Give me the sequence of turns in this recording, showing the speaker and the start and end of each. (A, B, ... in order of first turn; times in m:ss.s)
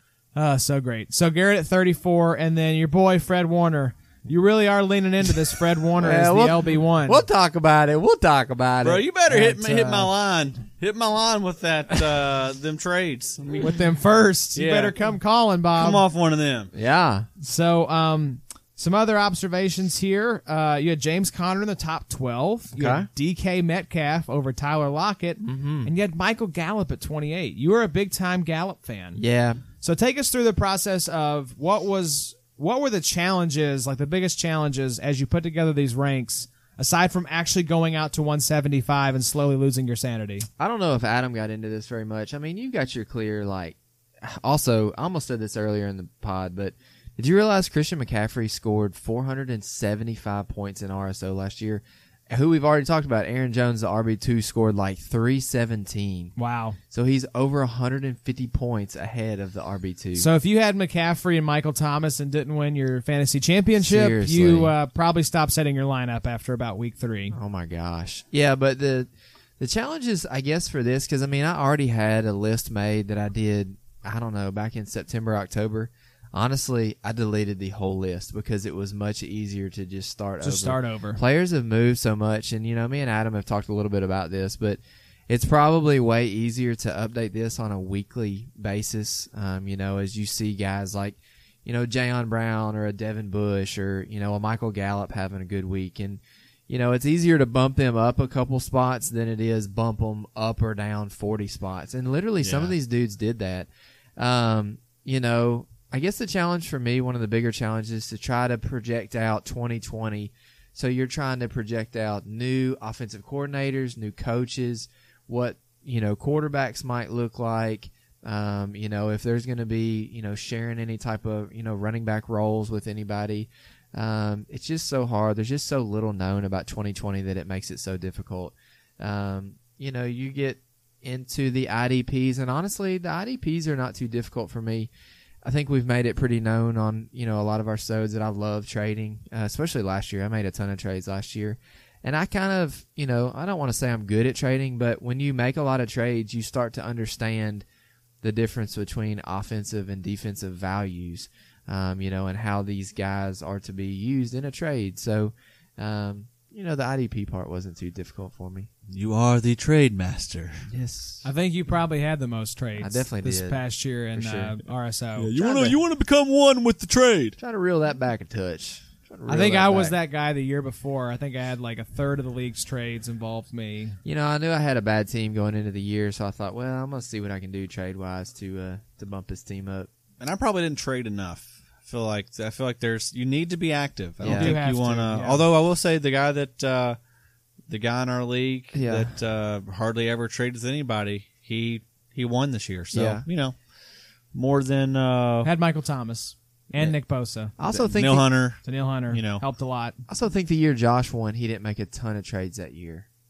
0:00.3-0:07.2 A
0:06.0-0:10.1 B
0:08.8-0:13.8 C
0:13.6-0:16.0 A
0:14.5-0:14.9 C
0:15.8-0:16.7 C
0:16.7-0:17.3 B
0:17.4-0:29.2 A
0:22.8-0:23.1 B
0:25.4-0:25.9 B
0:29.2-0:29.6 B
0:29.8-0:40.5 A
0:40.6-0:56.3 B
0:56.4-0:56.8 A
0:56.9-1:00.3 B
1:00.2-1:07.3 A
1:03.8-1:04.7 B
1:07.3-2:14.9 B
1:20.4-1:21.2 A
1:42.4-1:42.7 C
2:15.4-2:27.6 B
2:28.2-2:38.7 B
2:38.9-2:40.7 C
2:40.7-2:41.2 B
2:41.2-2:45.3 A
2:42.8-2:44.6 B
2:45.2-2:47.4 C
2:45.3-2:45.8 B
2:47.4-2:50.0 B
2:49.3-2:54.0 A
2:54.0-2:59.9 B
3:00.2-3:07.0 C
3:04.2-3:04.5 B
3:04.2-3:05.4 A
3:07.7-3:13.6 C
3:08.7-3:09.1 B
3:12.9-3:13.2 B
3:14.3-3:15.5 C
3:15.4-3:17.5 A
3:17.6-3:18.3 B
3:17.7-3:19.4 C
3:18.6-3:20.0 A
3:20.1-3:23.1 B